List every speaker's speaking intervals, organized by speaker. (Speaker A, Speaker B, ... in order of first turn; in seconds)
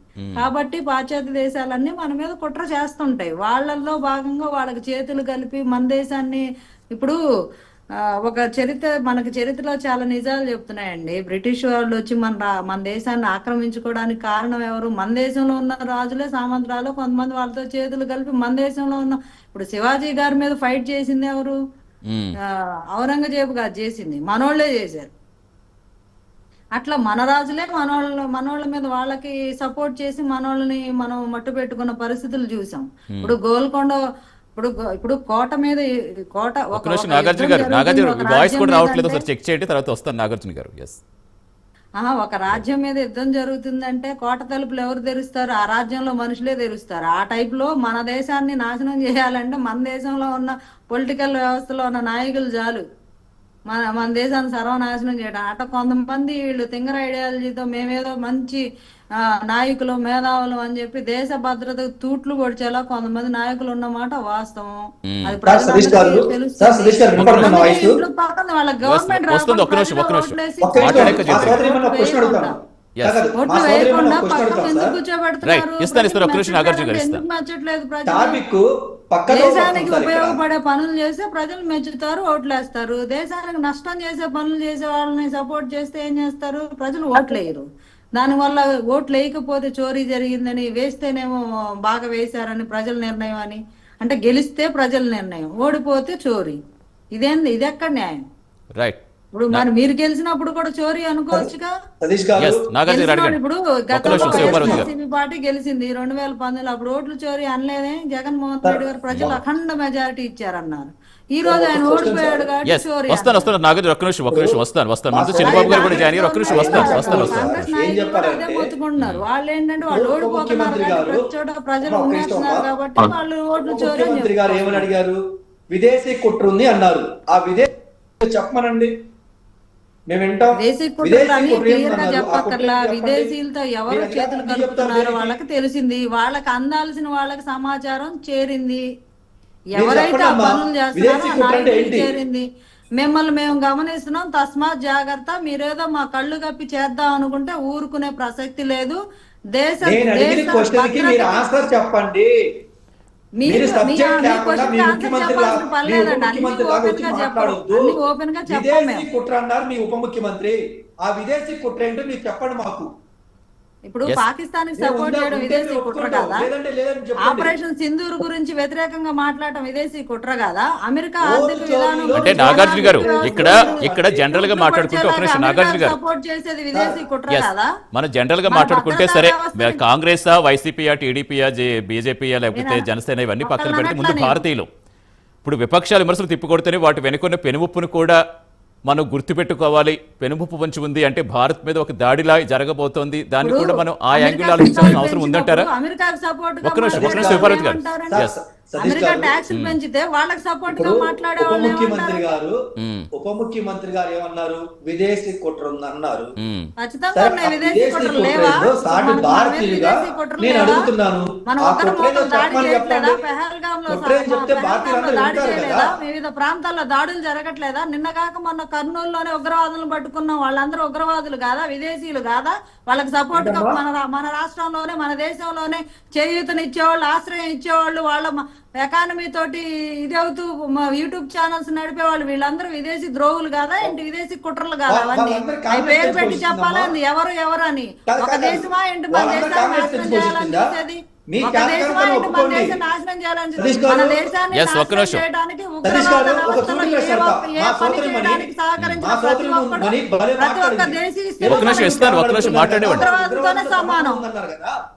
Speaker A: 0.2-0.5, 22.1-22.3, 36.7-41.0, 65.0-65.4, 67.2-67.8, 68.8-71.6, 73.0-73.3, 75.4-77.2, 102.4-103.4, 103.9-104.9, 109.1-109.4, 112.7-117.7, 119.0-119.2, 172.2-176.0, 177.3-184.7, 185.4-188.2, 188.8-195.7, 196.6-198.3, 199.5-199.8, 202.8-203.1, 206.4-206.7, 244.5-245.2, 248.8-249.0, 251.4-253.1
Speaker B: 0.3-7.2, 8.2-21.6, 22.9-25.1, 26.8-34.0, 34.5-39.2, 42.0-52.8, 53.7-58.6, 59.2-72.5, 73.4-78.4, 79.3-87.6, 88.2-96.6, 97.1-98.2, 99.3-101.7, 102.9-113.5, 115.4-124.9, 130.6-138.8, 139.8-142.4, 143.0-149.0, 149.5-151.5, 153.4-159.1, 163.9-166.5, 167.2-177.7, 178.5-179.8, 182.5-182.8, 183.4-184.4, 193.4-202.3, 206.8-210.9, 211.4-254.2
Speaker C: 65.5-68.0, 70.6-75.0, 78.1-80.4, 102.0-102.7, 104.1-104.9, 108.6-109.4, 111.4-112.5, 114.3-114.6, 115.1-118.7, 119.9-121.2, 121.8-122.7, 123.6-125.2, 125.7-128.9, 130.1-133.3, 133.9-135.4, 139.8-142.1, 149.8-152.3, 153.4-162.9, 164.8-167.5, 171.2-174.2, 196.9-199.3, 200.7-202.6, 203.1-206.3, 207.1-213.2, 213.9-215.9, 223.3-223.8, 234.9-236.9, 238.1-240.7, 241.3-242.8, 243.6-244.2, 245.8-248.5, 249.0-254.7